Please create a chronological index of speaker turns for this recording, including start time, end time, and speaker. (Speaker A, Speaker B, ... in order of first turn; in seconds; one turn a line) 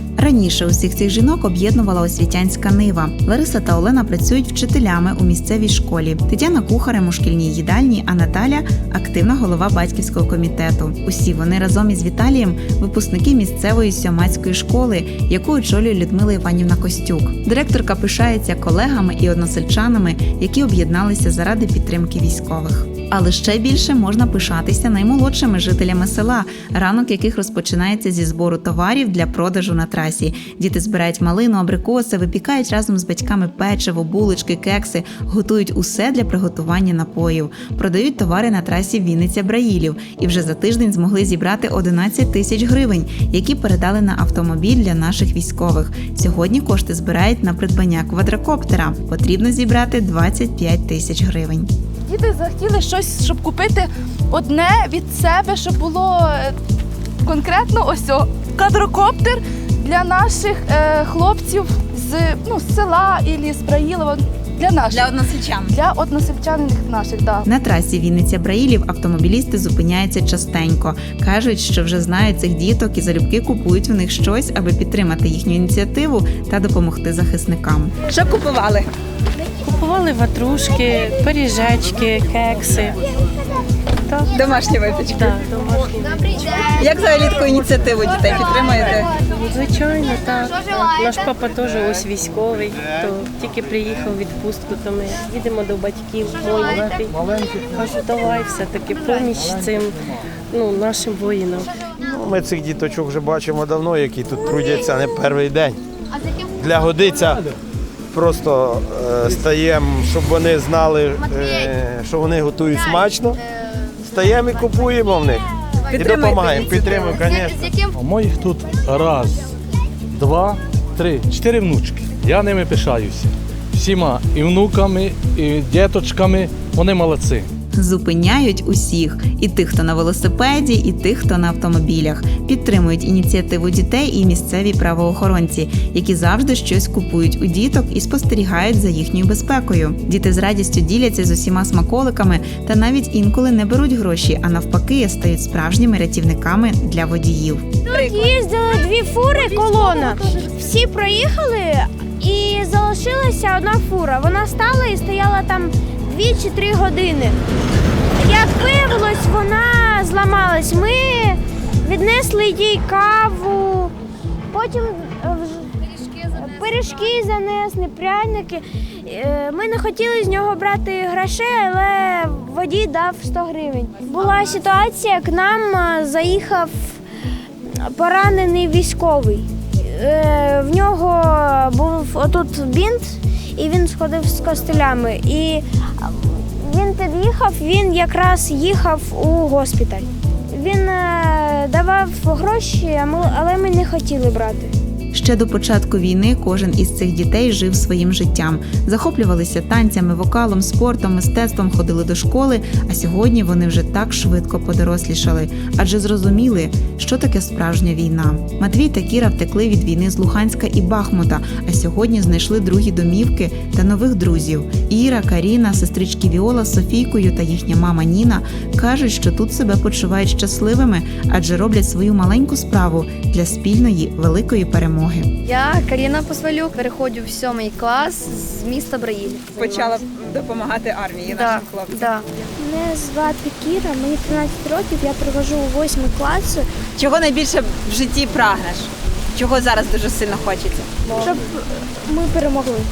Speaker A: 0.2-51.7
Speaker B: 52.1-56.5
Speaker B: 57.2-67.4
Speaker C: 64.9-65.7
Speaker A: 67.4-78.7
Speaker C: 78.1-78.8
Speaker D: 79.6-83.0
Speaker D: 84.1-84.3
Speaker C: 84.4-85.2
Speaker A: 84.5-85.0
Speaker D: 85.0-86.8
Speaker A: 86.8-89.0
Speaker C: 86.8-89.0
Speaker D: 88.7-100.0
Speaker D: 100.5-101.7
Speaker E: 102.0-105.8
Speaker E: 106.6-107.4
Speaker E: 108.1-113.4
Speaker E: 114.0-117.7
Speaker F: 117.9-119.5
Speaker F: 120.1-127.5
Speaker A: 127.7-147.7
Speaker G: 147.9-157.4
Speaker G: 158.2-163.9
Speaker G: 164.5-165.7
Speaker G: 166.2-177.0
Speaker G: 177.8-194.7
Speaker A: 195.1-225.3
Speaker H: 225.4-230.0
Speaker C: 229.8-231.9
Speaker A: 229.9-231.3
Speaker H: 231.3-232.2
Speaker C: 237.0-240.9
Speaker A: 238.3-238.6